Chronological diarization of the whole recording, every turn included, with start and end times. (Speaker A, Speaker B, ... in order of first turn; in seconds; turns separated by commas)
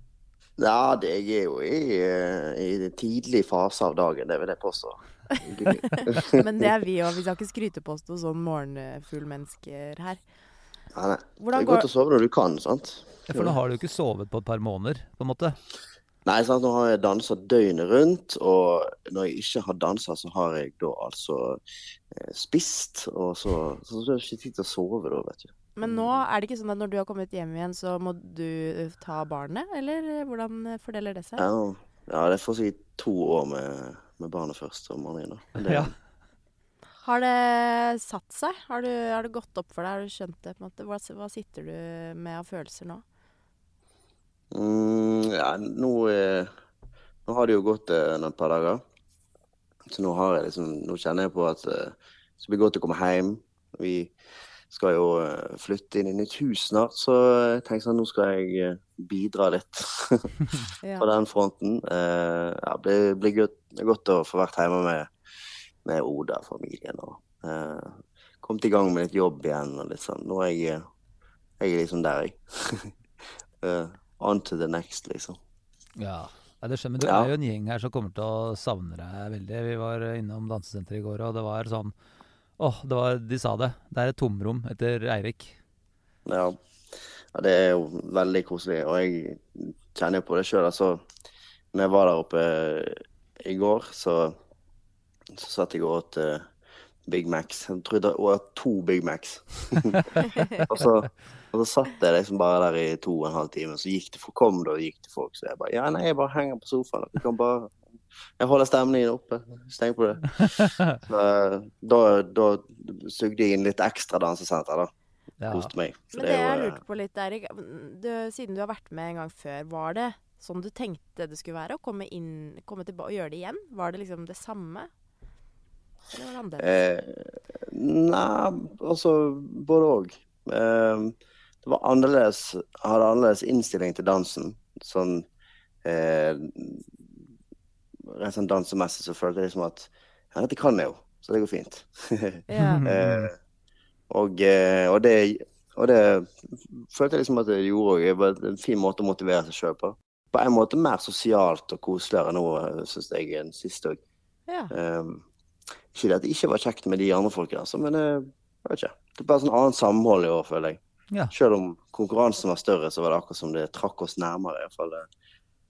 Speaker A: 0.6-6.7, Speaker B: 6.0-10.2, Speaker A: 10.9-13.6, Speaker B: 11.4-11.9, Speaker C: 13.3-15.6, Speaker A: 16.2-21.6, Speaker A: 22.1-26.2, Speaker B: 25.8-31.5, Speaker A: 31.4-35.9, Speaker C: 35.6-35.9, Speaker B: 37.0-43.0, Speaker A: 44.5-46.5, Speaker A: 47.3-48.8, Speaker A: 49.9-54.1, Speaker A: 54.7-60.4, Speaker B: 60.8-61.1, Speaker A: 61.0-65.1, Speaker A: 65.8-70.8, Speaker A: 71.6-72.9, Speaker A: 73.6-75.4, Speaker C: 76.0-81.9, Speaker A: 77.0-77.3, Speaker C: 82.6-85.6, Speaker A: 86.3-86.6, Speaker A: 87.3-91.0, Speaker A: 91.7-94.4, Speaker A: 95.3-96.5, Speaker A: 97.1-107.8, Speaker A: 108.4-114.9, Speaker C: 110.6-110.9, Speaker C: 115.4-115.7, Speaker A: 115.5-116.8, Speaker B: 116.1-124.9, Speaker B: 126.1-126.7, Speaker A: 126.6-135.3, Speaker A: 135.8-136.9, Speaker A: 138.1-143.4, Speaker B: 142.5-142.8, Speaker C: 142.6-143.3, Speaker A: 144.1-154.0, Speaker B: 154.5-154.7, Speaker A: 154.7-155.2, Speaker A: 155.9-160.8, Speaker A: 161.3-165.1